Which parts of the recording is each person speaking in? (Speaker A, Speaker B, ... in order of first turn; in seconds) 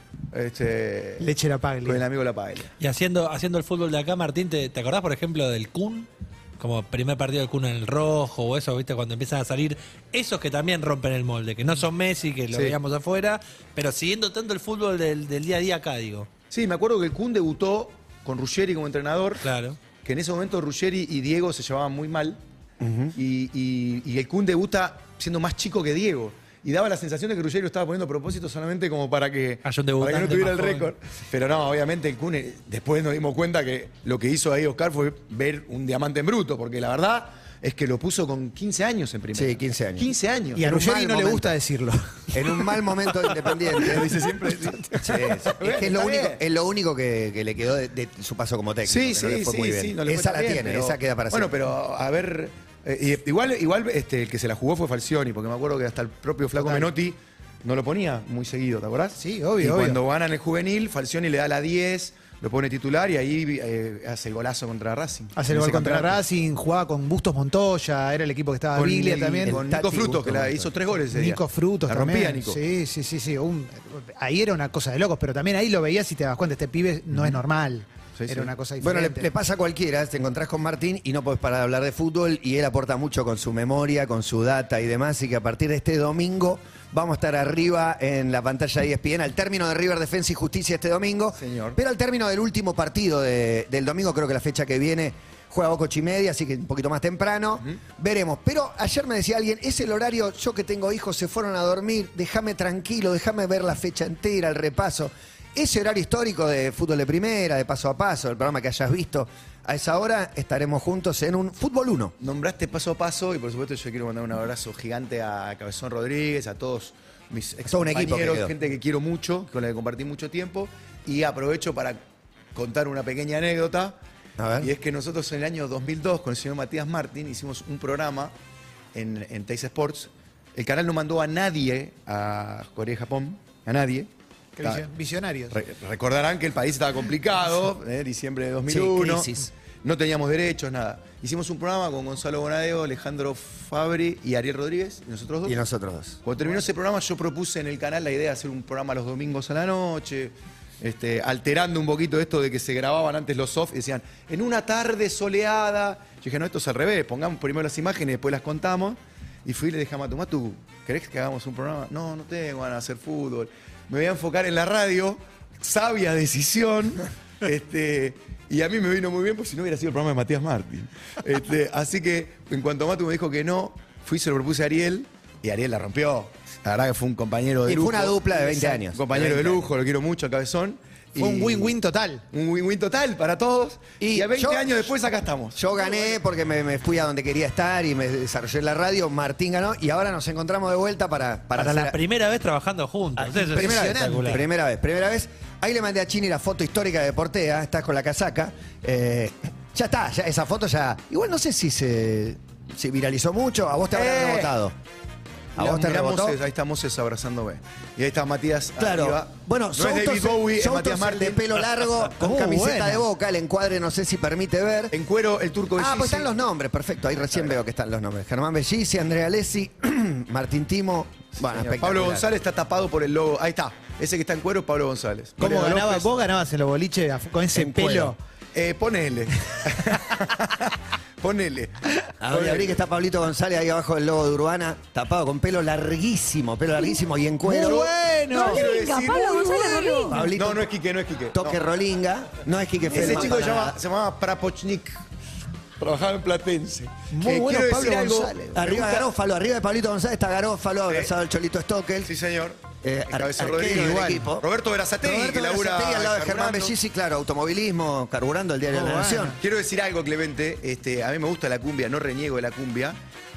Speaker A: 0.3-1.3, 1.8-2.7, 16.5-19.4, 20.0-22.4, 23.1-40.6, 43.7-46.4, 48.9-66.2, 68.7-72.6, 78.2-78.5, 91.4-91.8, 112.2-122.0, 122.5-123.9, 124.6-128.3, 128.9-134.1, 135.5-145.6, 146.2-181.7, 182.3-185.6, 203.9-204.6, 205.6-211.5, 214.9-216.3, 221.4-226.1, 228.5-232.8, 237.6-239.8, 240.3-241.6, 242.9-245.0, 245.8-249.1, 252.0-256.7, 259.4-263.0
Speaker B: 1.2-2.0, 40.5-42.3, 56.6-56.9, 59.2-60.0, 65.3-69.6, 71.1-79.3, 134.6-135.6, 181.2-182.2, 193.2-194.3, 212.2-213.0, 225.4-228.2, 237.4-238.6, 247.1-248.7, 253.6-254.2, 258.7-259.4
Speaker C: 2.8-6.1, 6.6-16.3, 19.4-19.8, 29.6-30.9, 191.6-194.4
Speaker D: 22.8-23.1, 39.3-41.5, 42.3-44.1, 45.0-51.5, 69.5-70.7, 78.8-112.1, 117.7-118.5, 124.4-124.7, 138.7-139.5, 145.4-146.2, 177.7-179.7, 184.0-184.8, 185.5-192.0, 193.4-204.7, 205.6-206.4, 208.8-214.9, 215.8-222.3, 227.5-228.1, 232.2-237.9, 240.1-240.7, 241.3-243.8, 248.5-252.1, 252.8-254.4, 255.0-259.4
Speaker E: 238.3-240.3